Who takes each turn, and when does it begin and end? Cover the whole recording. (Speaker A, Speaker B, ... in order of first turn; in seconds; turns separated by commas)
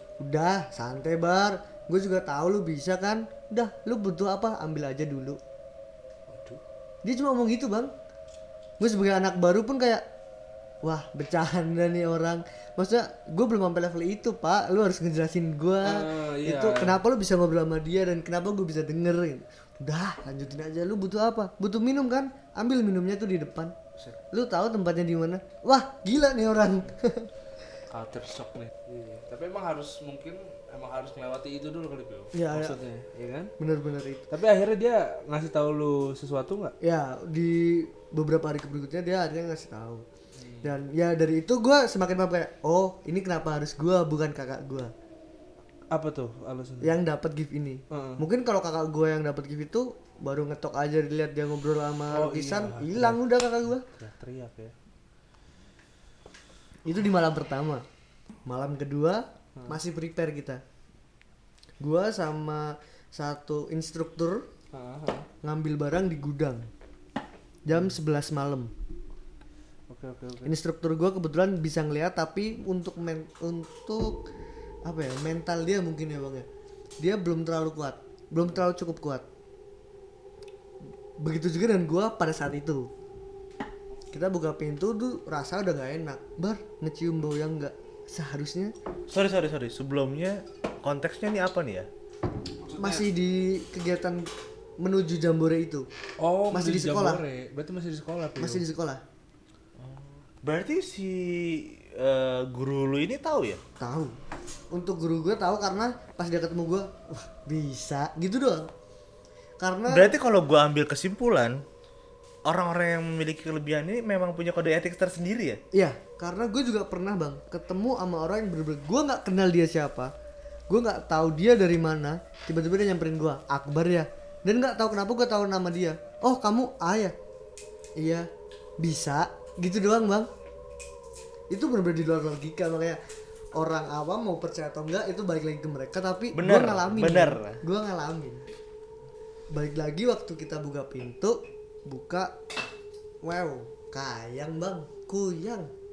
Speaker A: 0.2-5.4, Speaker B: 6.3-6.6, Speaker A: 7.0-7.9, Speaker A: 8.8-10.0, Speaker A: 10.8-23.7, Speaker B: 15.8-17.0, Speaker A: 24.3-27.3, Speaker B: 27.9-33.5, Speaker A: 32.3-32.8, Speaker A: 33.6-34.3, Speaker B: 34.3-36.7, Speaker A: 36.8-40.0, Speaker B: 40.4-40.8, Speaker A: 40.6-44.9, Speaker B: 45.9-47.0, Speaker A: 46.8-53.9, Speaker B: 47.9-48.2, Speaker B: 52.1-53.2, Speaker B: 53.8-54.7, Speaker A: 56.9-57.9, Speaker A: 58.4-60.6, Speaker A: 61.8-64.5, Speaker B: 64.7-65.3, Speaker A: 65.4-66.7, Speaker A: 67.6-68.7, Speaker B: 69.9-70.5, Speaker A: 70.4-74.2, Speaker A: 74.8-76.5, Speaker A: 77.0-79.2, Speaker A: 81.2-82.9, Speaker A: 84.1-88.7, Speaker C: 89.1-91.9, Speaker B: 92.6-93.1, Speaker A: 92.8-95.9, Speaker B: 96.2-98.6, Speaker A: 96.5-97.2, Speaker A: 98.4-99.0, Speaker C: 99.8-103.6, Speaker A: 103.8-104.2, Speaker A: 104.7-108.7, Speaker A: 109.6-110.1, Speaker C: 109.9-111.6, Speaker C: 112.4-115.6, Speaker A: 115.7-120.1, Speaker A: 120.7-127.1, Speaker A: 128.0-128.3, Speaker A: 128.8-130.3, Speaker A: 131.5-133.0, Speaker A: 133.5-138.4, Speaker C: 136.3-137.6, Speaker A: 139.5-142.4, Speaker A: 143.2-145.7